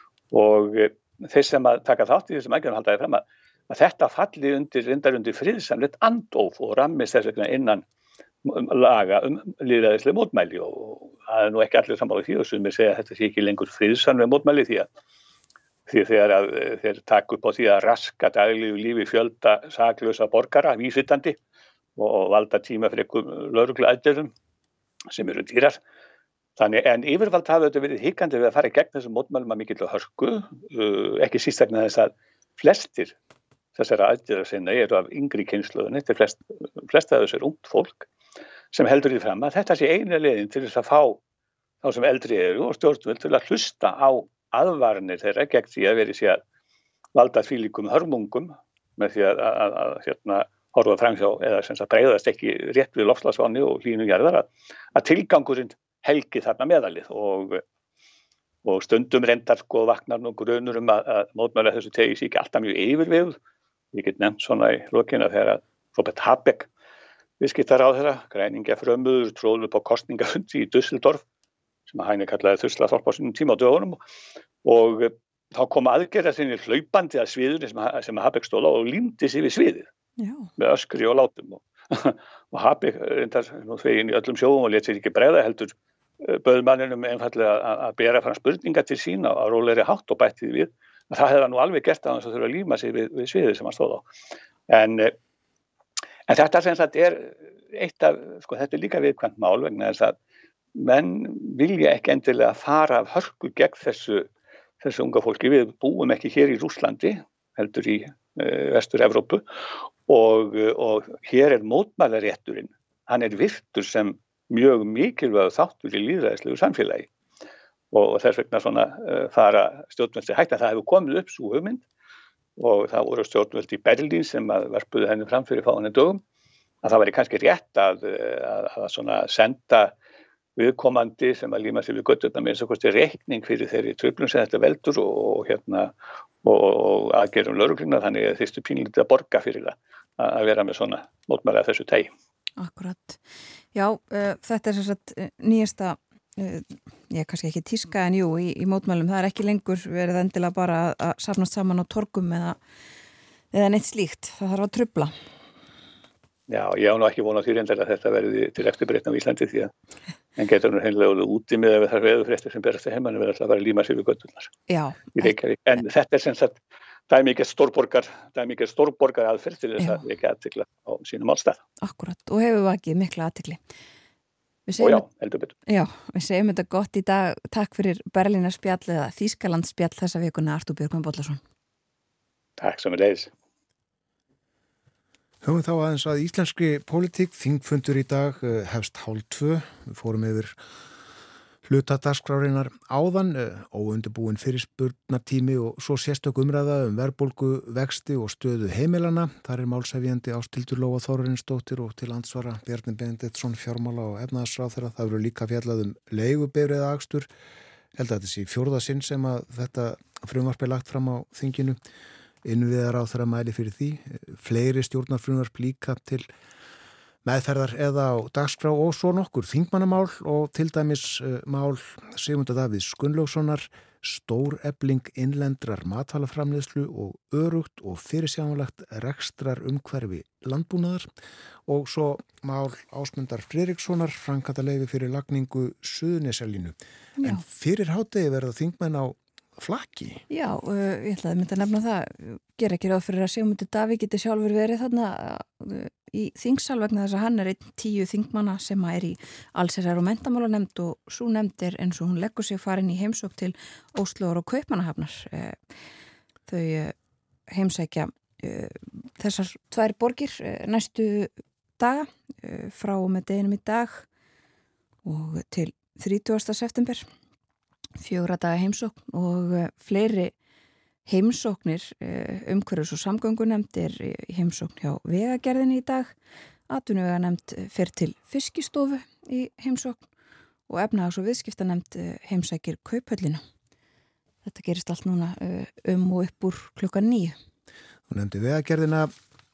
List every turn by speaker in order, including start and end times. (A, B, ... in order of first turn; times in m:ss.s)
0:00.3-0:07.8 A
0:08.4-0:14.9 A
0:15.9-0:21.4 A
0:22.0-0:24.3 A
0:25.1-0:25.8 A
0:26.6-0:33.2 A
0:33.8-0:38.1 A
0:38.7-0:41.2 A
0:41.8-0:46.4 A
0:47.2-0:57.6 A
0:58.6-1:03.4 A
1:03.9-1:06.7 A
1:07.4-1:11.2 A
1:11.9-1:14.0 A
1:14.6-1:19.9 A
1:20.2-1:20.5 B
1:20.6-1:34.1 A
1:34.7-1:35.2 A
1:36.3-1:40.2 A
1:40.8-1:44.3 A
1:44.8-1:49.4 A
1:50.1-1:57.1 A
1:57.9-2:01.8 A
2:02.6-2:06.2 A
2:06.8-2:09.9 A
2:10.6-2:22.1 A
2:22.6-2:23.2 B
2:23.7-2:32.6 B
2:33.5-2:35.2 B
2:36.5-2:39.7 A
2:40.4-2:44.5 A
2:44.7-2:45.4 B
2:45.2-2:46.6 A
2:47.1-2:51.6 A
2:51.8-2:53.6 B
2:54.7-2:55.0 B
2:54.8-2:55.6 A
2:55.7-3:01.4 B
3:02.6-3:03.3 A
3:05.4-3:10.6 C
3:11.6-3:27.3 C
3:27.9-3:31.8 C
3:32.4-3:36.3 C
3:37.2-3:51.1 C
3:51.7-4:00.2 C
3:57.2-3:57.4 B
4:00.3-4:15.6 B
4:16.5-4:16.9 B
4:17.5-4:24.1 B
4:25.0-4:27.1 B
4:28.0-4:30.3 B
4:31.1-4:36.1 B
4:36.7-4:40.0 B
4:40.7-4:43.4 B
4:44.4-4:47.4 B
4:48.1-4:49.1 C